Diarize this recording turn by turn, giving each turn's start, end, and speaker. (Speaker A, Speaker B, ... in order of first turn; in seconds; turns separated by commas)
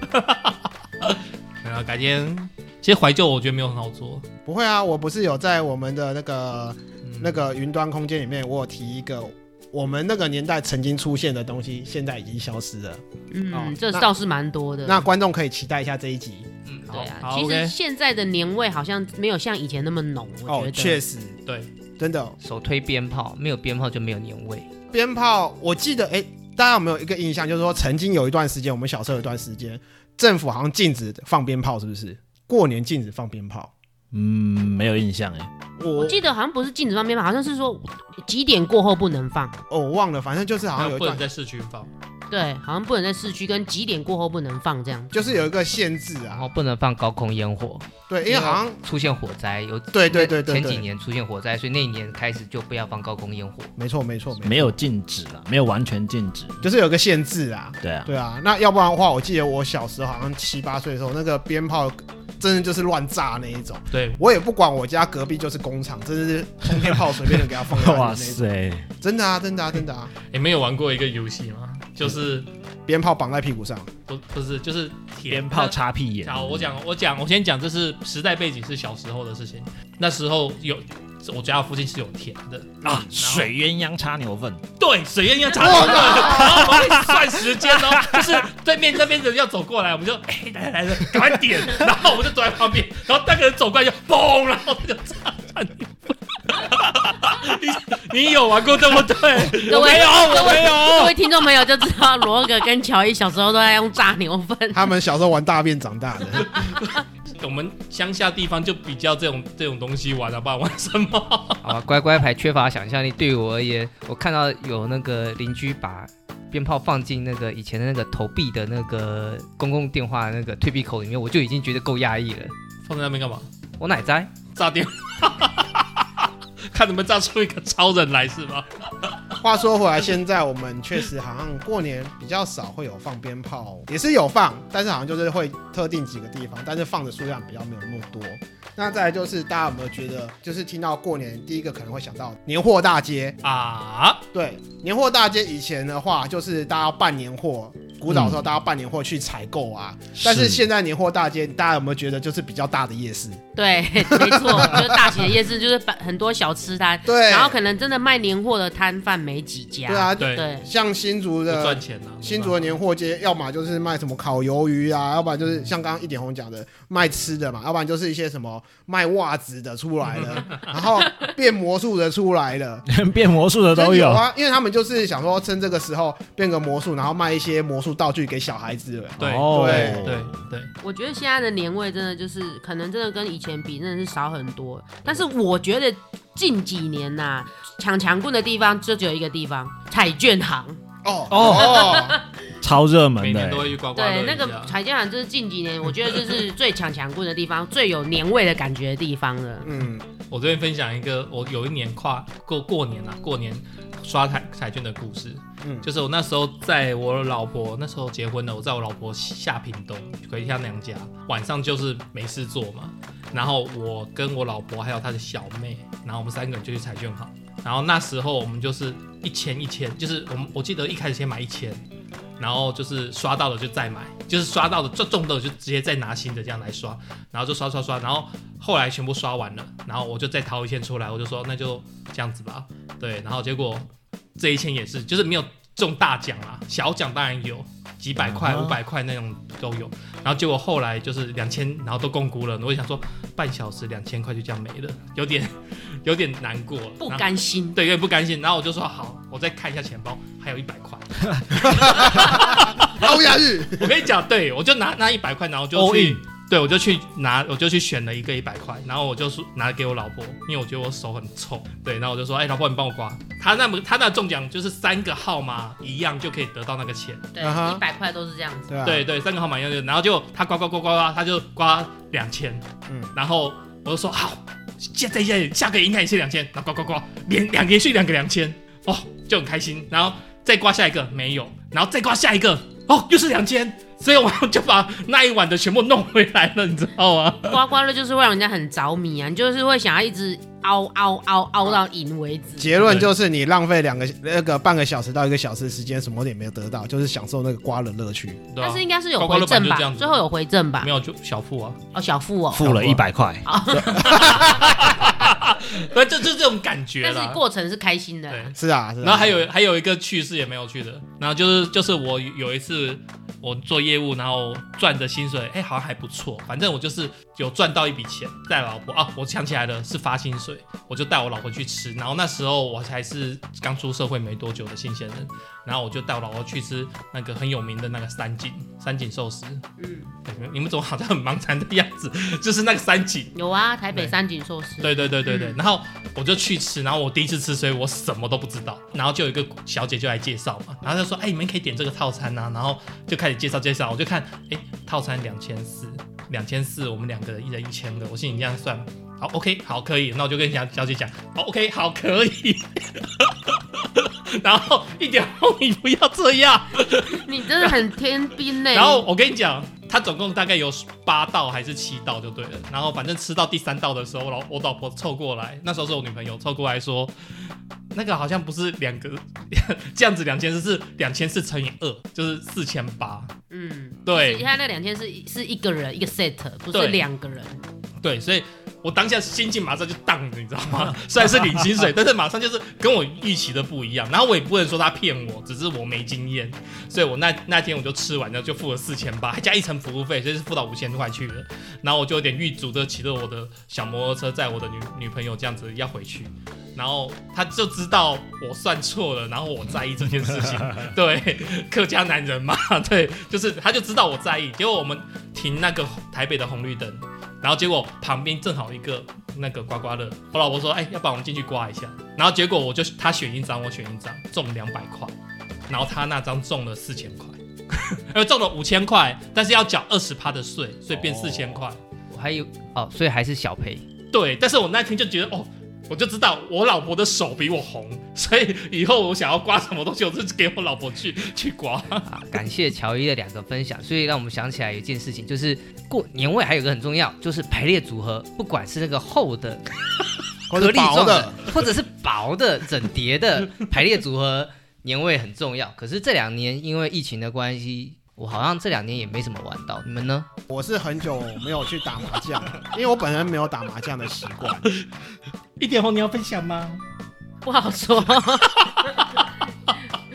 Speaker A: 0.1-4.3, Speaker B: 4.5-14.1, Speaker A: 7.0-7.4, Speaker C: 13.3-15.1, Speaker B: 14.8-16.5, Speaker D: 16.7-16.9, Speaker C: 16.9-21.0, Speaker A: 16.9-17.8, Speaker B: 20.5-21.4, Speaker B: 22.0-22.4, Speaker D: 22.4-24.7, Speaker B: 24.9-33.7, Speaker E: 34.1-35.5, Speaker B: 35.8-36.2, Speaker C: 35.9-39.6, Speaker B: 39.7-41.2, Speaker A: 40.8-41.9, Speaker C: 42.3-45.1, Speaker B: 45.1-46.5, Speaker D: 46.3-53.7, Speaker B: 48.1-48.8, Speaker B: 49.9-50.9, Speaker B: 53.8-54.8, Speaker E: 54.4-56.6, Speaker B: 56.6-68.4, Speaker E: 57.8-58.1, Speaker A: 63.9-64.2, Speaker E: 67.4-68.9, Speaker B: 69.0-70.1, Speaker A: 70.3-72.5, Speaker B: 72.9-73.9, Speaker A: 74.1-83.5, Speaker E: 75.3-76.8, Speaker B: 82.8-83.1, Speaker E: 82.8-84.6, Speaker A: 84.8-95.9, Speaker B: 85.6-86.7, Speaker E: 86.4-87.2, Speaker E: 87.8-88.5, Speaker A: 96.5-101.1, Speaker C: 99.6-104.9, Speaker B: 104.7-106.6, Speaker A: 106.7-111.7, Speaker D: 111.6-122.5, Speaker A: 122.9-123.5, Speaker D: 123.8-124.3, Speaker A: 124.5-129.2, Speaker B: 129.4-143.4, Speaker A: 143.4-144.2, Speaker B: 144.3-153.4, Speaker E: 148.1-148.5, Speaker E: 150.2-150.7, Speaker C: 153.6-160.7, Speaker B: 154.0-155.3, Speaker B: 157.1-157.6, Speaker B: 159.9-172.9, Speaker A: 160.2-160.5, Speaker A: 161.5-162.7, Speaker A: 170.1-170.7, Speaker C: 171.0-171.3, Speaker E: 172.9-174.2, Speaker B: 173.7-180.2, Speaker E: 179.2-180.4, Speaker A: 179.2-180.7, Speaker C: 180.8-190.8, Speaker B: 191.0-192.2, Speaker E: 191.3-192.0, Speaker C: 191.4-192.3, Speaker E: 192.6-193.8, Speaker A: 193.2-194.7, Speaker C: 193.9-199.7, Speaker B: 199.6-200.1, Speaker A: 200.3-221.8, Speaker B: 205.6-205.9, Speaker A: 222.4-267.3, Speaker E: 238.2-238.8, Speaker C: 247.0-247.8, Speaker E: 251.3-251.6, Speaker B: 251.6-254.0, Speaker E: 255.8-256.2, Speaker C: 267.3-268.7, Speaker B: 267.4-267.8, Speaker B: 268.7-269.1, Speaker A: 268.8-287.6, Speaker B: 272.9-273.1, Speaker C: 287.4-292.9, Speaker B: 292.6-298.4, Speaker A: 292.8-293.1, Speaker A: 298.5-300.2, Speaker C: 298.6-300.9, Speaker A: 300.8-301.8, Speaker C: 301.9-302.9, Speaker E: 302.5-304.9, Speaker A: 302.6-303.0, Speaker C: 303.4-304.2, Speaker A: 304.0-307.4, Speaker B: 304.1-304.4, Speaker C: 307.0-308.6, Speaker A: 308.3-329.6, Speaker B: 308.6-309.5, Speaker C: 329.8-330.1, Speaker A: 330.2-333.3, Speaker C: 333.4-335.6, Speaker A: 333.9-334.2, Speaker A: 334.8-357.7, Speaker C: 357.0-359.1, Speaker A: 358.7-373.3, Speaker C: 373.5-377.6, Speaker A: 374.1-374.5, Speaker A: 376.7-377.0, Speaker A: 378.0-415.1, Speaker A: 415.7-421.8, Speaker E: 420.9-421.7, Speaker D: 422.1-423.9, Speaker A: 424.1-432.1, Speaker D: 432.1-439.7, Speaker B: 440.5-441.4, Speaker D: 440.5-450.3, Speaker B: 450.5-454.7, Speaker A: 455.6-456.8, Speaker C: 457.4-459.2, Speaker A: 458.7-459.0